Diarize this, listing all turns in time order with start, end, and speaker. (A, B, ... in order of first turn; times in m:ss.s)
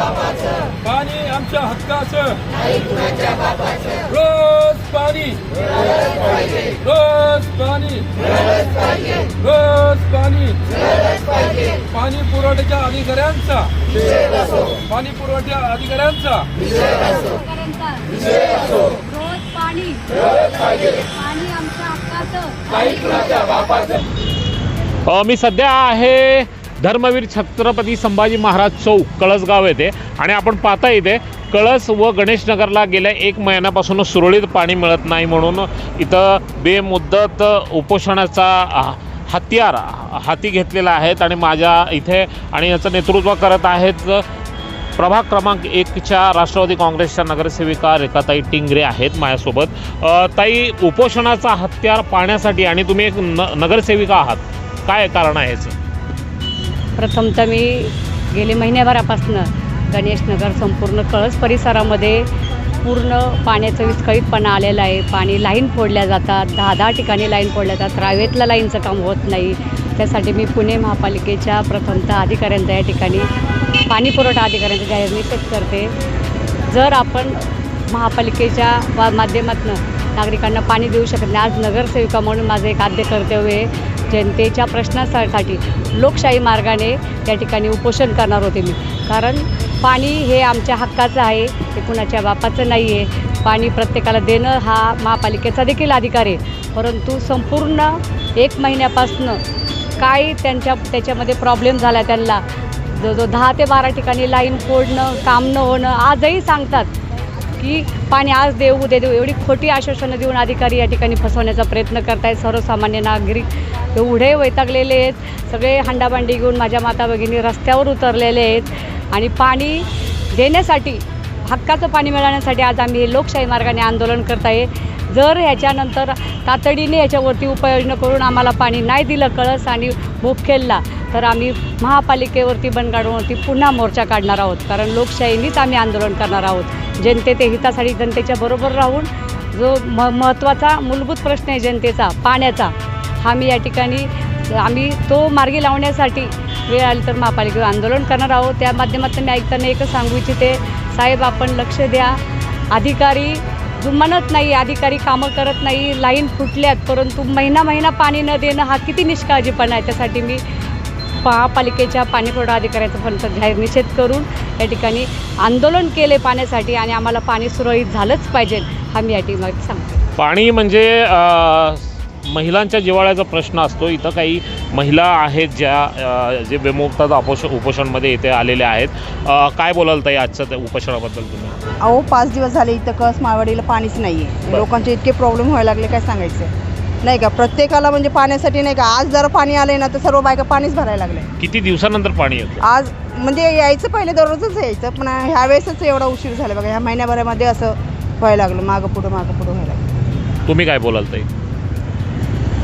0:00.8-0:02.4 A
0:04.1-0:05.4 A
0:06.8-0:08.1 A
0:09.4-0:10.6 A
0:11.9-0:13.7 A
0:14.9-0:16.5 A
0:17.2-0:23.1 B
0:25.1-0:44.2 C
0:45.0-0:55.8 C
0:57.0-1:02.3 B
1:02.8-1:13.3 B
1:13.9-1:15.9 B
1:16.7-1:39.4 B
1:40.0-1:46.9 B
1:47.6-2:32.2 B
2:32.7-2:40.4 B
2:41.2-2:50.0 B
2:50.2-3:01.6 C
3:01.8-3:06.5 D
3:07.0-3:11.3 D
3:11.4-3:12.6 C
3:12.6-3:19.9 D
3:20.5-3:21.3 C